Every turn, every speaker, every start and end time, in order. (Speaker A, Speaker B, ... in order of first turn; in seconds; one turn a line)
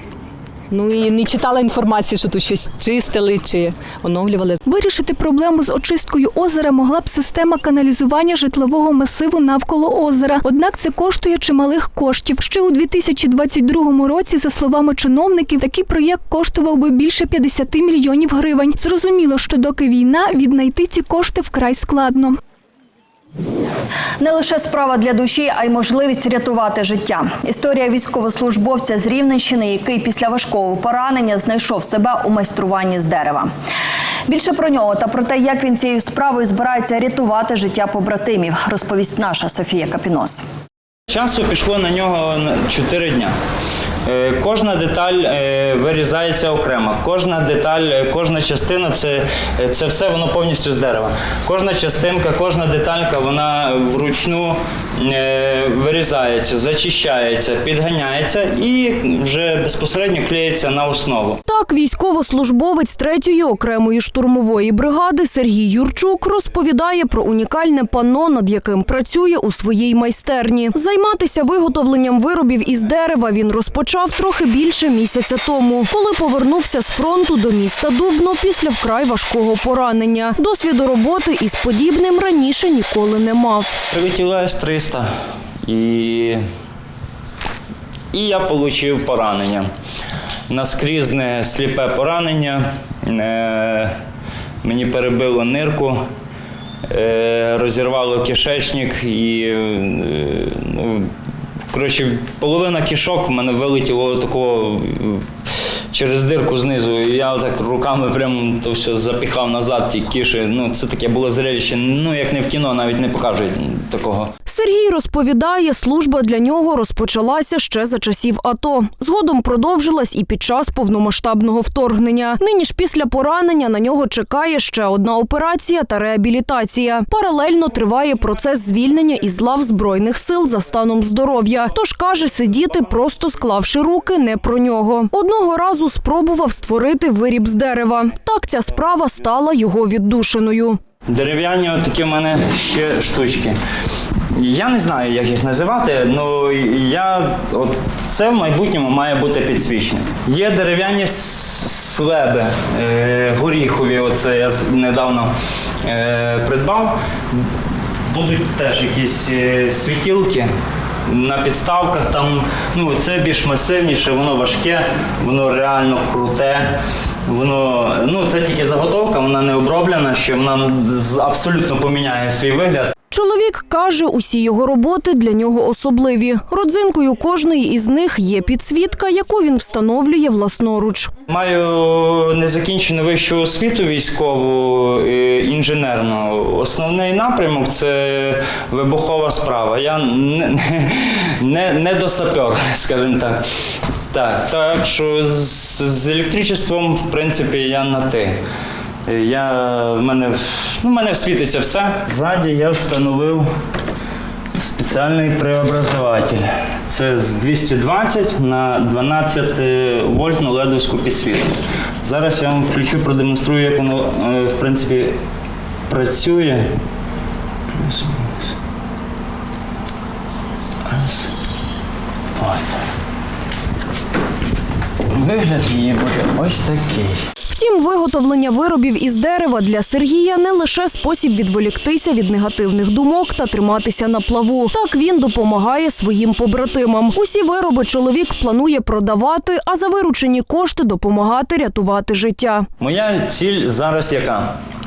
Speaker A: 0.7-4.6
Speaker B: 4.7-22.4
Speaker C: 24.2-33.5
Speaker C: 34.3-40.4
Speaker D: 41.1-43.3
Speaker D: 44.1-61.4
Speaker E: 61.5-83.7
Speaker D: 83.9-85.1
Speaker D: 85.6-86.4
Speaker D: 88.1-89.7
Speaker D: 90.5-94.0
Speaker D: 94.6-96.0
Speaker D: 96.9-101.1
Speaker D: 101.7-105.3
Speaker D: 105.9-114.3
Speaker E: 114.5-140.8
Speaker D: 141.1-143.6
Speaker D: 144.4-155.3
Speaker D: 155.8-157.5
Speaker D: 158.1-160.5
Speaker D: 161.1-166.7
Speaker D: 167.3-172.9
Speaker E: 173.1-181.1
Speaker D: 181.3-193.4
Speaker D: 194.1-198.4
Speaker D: 199.1-203.5
Speaker D: 204.6-215.2
Speaker D: 215.9-216.7
Speaker D: 217.8-218.5
Speaker D: 220.9-221.3
Speaker D: 222.4-222.7
Speaker D: 225.1-227.2
Speaker E: 227.5-242.7
Speaker D: 242.8-244.5